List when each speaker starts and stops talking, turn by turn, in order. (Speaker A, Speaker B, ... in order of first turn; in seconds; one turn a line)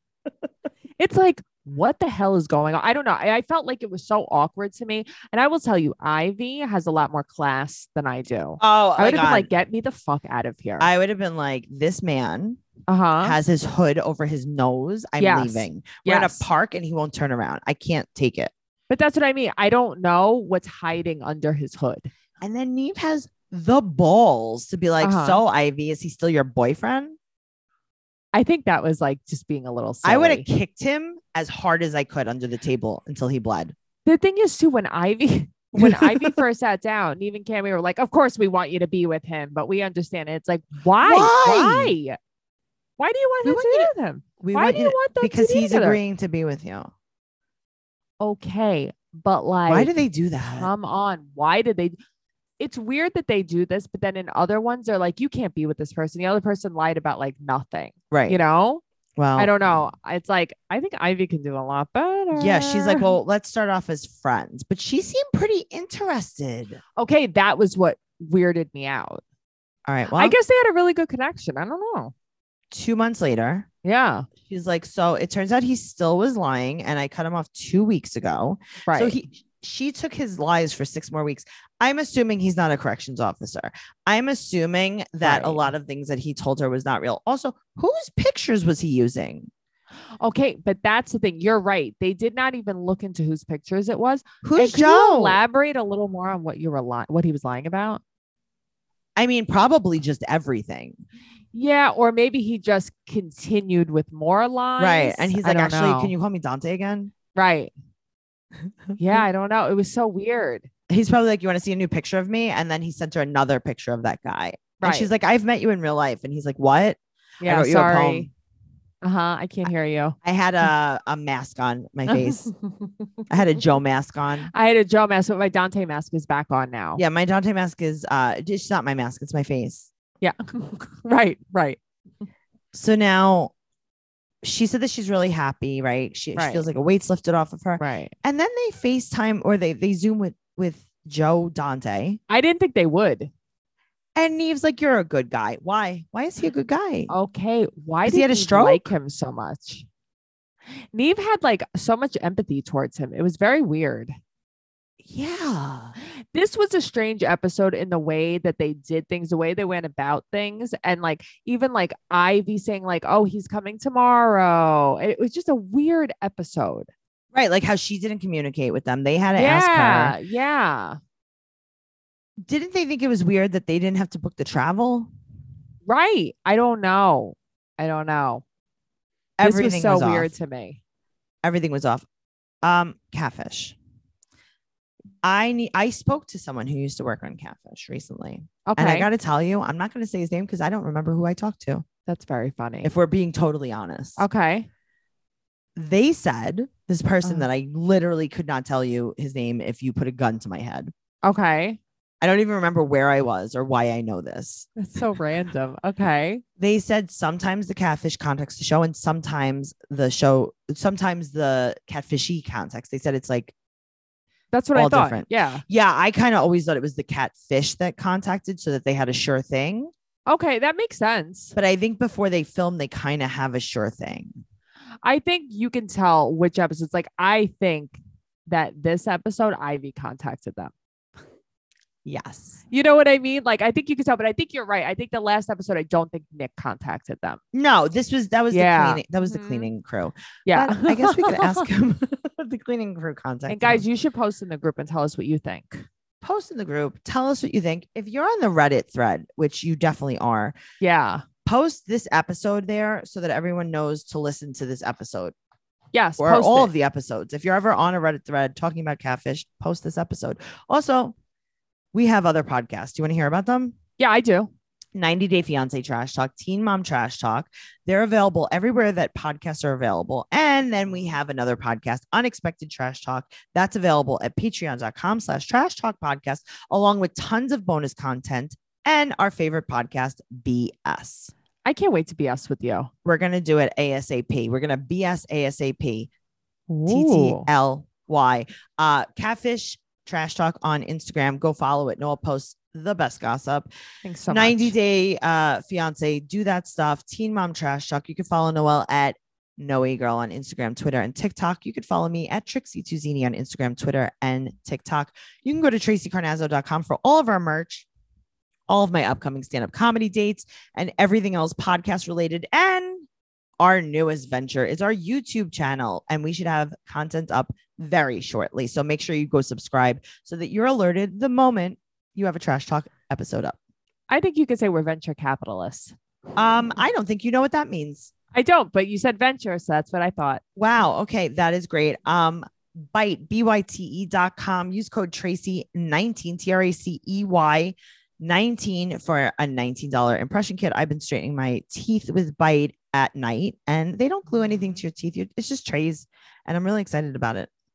Speaker A: 1.0-10.9
Speaker B: 8.6-9.5
Speaker B: 10.8-12.6
Speaker A: 12.9-13.4
Speaker B: 13.2-18.5
Speaker A: 15.2-16.5
Speaker A: 18.9-22.1
Speaker B: 22.4-27.2
Speaker A: 25.0-25.4
Speaker A: 28.3-30.5
Speaker B: 30.0-33.7
Speaker A: 34.0-42.2
Speaker B: 35.8-36.4
Speaker B: 41.0-41.9
Speaker A: 43.0-46.0
Speaker B: 43.4-46.9
Speaker A: 48.2-49.9
Speaker B: 49.7-50.7
Speaker A: 50.5-51.9
Speaker A: 52.6-58.8
Speaker B: 58.1-58.4
Speaker B: 59.2-59.5
Speaker A: 59.4-63.1
Speaker B: 62.3-66.8
Speaker A: 67.0-69.2
Speaker B: 69.9-70.3
Speaker A: 70.1-72.1
Speaker B: 72.7-73.7
Speaker A: 73.8-74.3
Speaker B: 74.4-89.5
Speaker A: 78.8-79.2
Speaker A: 85.2-85.7
Speaker A: 90.2-98.0
Speaker B: 94.4-95.4
Speaker B: 99.2-101.0
Speaker A: 101.5-106.1
Speaker B: 104.8-107.1
Speaker A: 107.3-107.7
Speaker A: 109.0-110.7
Speaker B: 110.9-118.3
Speaker A: 114.8-115.1
Speaker A: 117.4-118.3
Speaker A: 119.0-120.2
Speaker B: 120.2-122.5
Speaker A: 122.1-123.1
Speaker B: 123.3-124.5
Speaker A: 124.5-127.0
Speaker B: 127.0-129.9
Speaker A: 130.2-131.8
Speaker B: 132.7-133.5
Speaker B: 134.4-142.2
Speaker A: 136.3-136.6
Speaker A: 137.8-138.1
Speaker A: 142.3-143.3
Speaker B: 144.2-147.1
Speaker A: 147.1-149.8
Speaker B: 148.0-148.9
Speaker A: 150.9-154.1
Speaker B: 155.0-155.9
Speaker A: 156.3-166.9
Speaker B: 167.3-170.2
Speaker A: 169.3-171.0
Speaker B: 172.4-175.1
Speaker A: 175.8-178.4
Speaker B: 179.4-180.3
Speaker A: 179.4-180.8
Speaker B: 181.4-182.1
Speaker B: 182.6-183.8
Speaker B: 185.2-191.8
Speaker A: 188.7-189.1
Speaker A: 192.1-192.9
Speaker B: 192.8-194.2
Speaker A: 194.2-194.7
Speaker B: 195.8-200.9
Speaker A: 201.2-201.8
Speaker B: 202.2-204.7
Speaker A: 204.8-206.4
Speaker B: 206.6-213.5
Speaker A: 214.5-215.6
Speaker B: 214.7-219.9
Speaker A: 220.3-221.5
Speaker B: 221.5-224.4
Speaker A: 225.0-230.7
Speaker B: 232.0-232.6
Speaker A: 232.7-237.4
Speaker B: 237.5-243.8
Speaker A: 238.5-239.7
Speaker A: 240.4-241.7
Speaker A: 243.5-245.9
Speaker B: 246.2-250.6
Speaker A: 250.8-251.2
Speaker B: 251.4-255.3
Speaker A: 255.9-256.7
Speaker B: 256.2-261.1
Speaker B: 261.9-263.8
Speaker A: 264.0-264.5
Speaker B: 264.9-281.3
Speaker A: 281.6-282.9
Speaker B: 283.0-286.1
Speaker A: 286.7-287.5
Speaker B: 286.9-293.7
Speaker A: 294.0-294.7
Speaker B: 294.3-307.9
Speaker B: 308.7-313.1
Speaker B: 313.6-323.6
Speaker A: 324.1-325.9
Speaker B: 326.4-328.1
Speaker A: 328.3-330.4
Speaker B: 330.6-347.5